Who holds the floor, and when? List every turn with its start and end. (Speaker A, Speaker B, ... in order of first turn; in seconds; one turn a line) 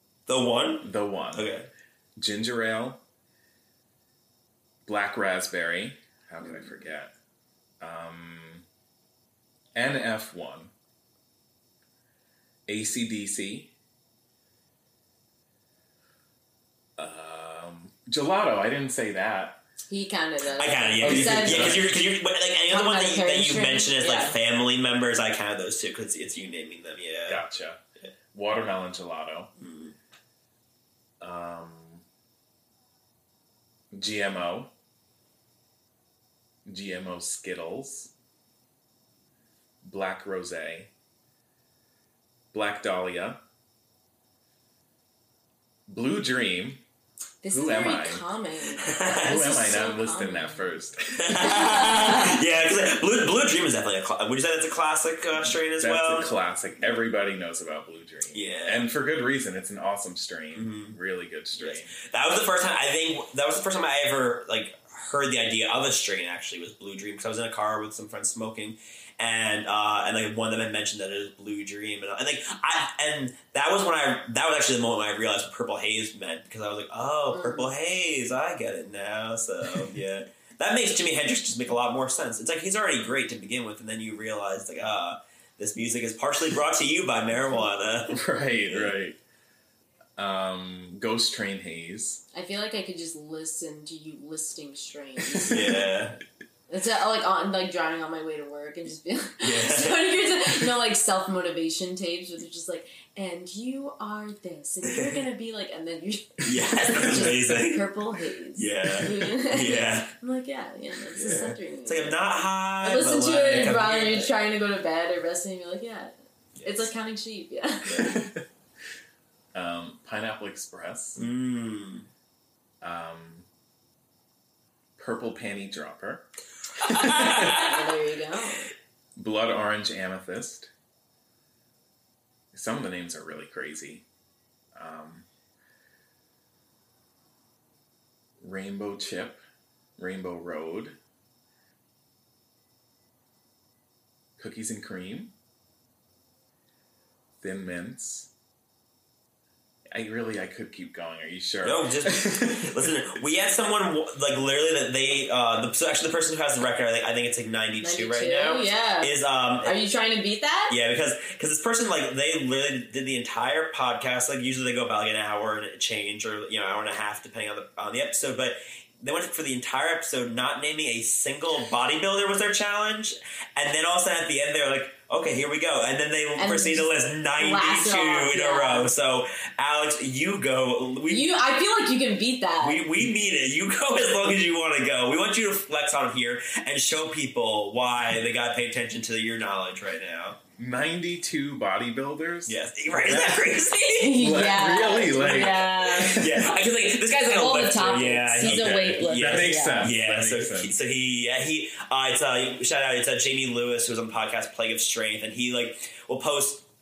Speaker A: 0.3-1.7
Speaker B: 0.8-1.5
Speaker B: 2.2-3.0
Speaker B: 4.9-7.1
Speaker B: 7.8-8.7
Speaker B: 9.8-10.7
Speaker B: 12.7-13.7
Speaker B: 17.0-19.6
Speaker C: 19.9-21.9
Speaker A: 20.6-27.4
Speaker B: 21.0-21.9
Speaker C: 22.7-24.4
Speaker B: 27.3-27.8
Speaker B: 28.3-29.5
Speaker A: 29.6-30.0
Speaker B: 31.2-32.0
Speaker B: 33.9-34.7
Speaker B: 36.6-38.1
Speaker B: 39.8-40.9
Speaker B: 42.5-43.4
Speaker B: 45.9-46.8
Speaker C: 47.4-50.7
Speaker B: 47.5-48.3
Speaker A: 48.8-49.5
Speaker B: 49.2-51.6
Speaker A: 51.2-56.3
Speaker C: 51.4-52.4
Speaker B: 55.4-61.9
Speaker A: 58.3-58.9
Speaker A: 60.5-61.0
Speaker A: 61.6-89.0
Speaker C: 77.3-77.7
Speaker B: 88.1-89.2
Speaker B: 90.2-92.2
Speaker C: 92.3-95.8
Speaker B: 95.3-95.8
Speaker A: 95.4-96.2
Speaker C: 96.7-112.2
Speaker A: 99.4-100.8
Speaker A: 104.8-105.2
Speaker A: 106.5-107.9
Speaker A: 108.6-110.1
Speaker A: 111.1-114.3
Speaker C: 112.8-118.2
Speaker A: 116.5-116.9
Speaker A: 117.9-118.2
Speaker B: 118.0-118.5
Speaker B: 119.5-121.3
Speaker A: 121.2-122.1
Speaker B: 122.8-123.5
Speaker B: 125.0-126.3
Speaker B: 126.8-127.6
Speaker A: 126.8-127.9
Speaker C: 127.0-128.7
Speaker B: 129.2-130.7
Speaker B: 132.5-134.1
Speaker B: 134.8-135.3
Speaker B: 138.4-139.4
Speaker B: 140.0-141.0
Speaker B: 144.4-145.3
Speaker B: 147.4-148.3
Speaker B: 149.9-152.9
Speaker A: 151.6-159.8
Speaker C: 157.8-160.8
Speaker A: 160.7-181.4
Speaker C: 176.4-178.9
Speaker C: 181.1-182.9
Speaker A: 182.6-190.4
Speaker B: 190.6-193.3
Speaker A: 192.5-206.7
Speaker C: 194.0-196.3
Speaker B: 194.2-196.5
Speaker C: 197.1-199.9
Speaker B: 198.4-200.8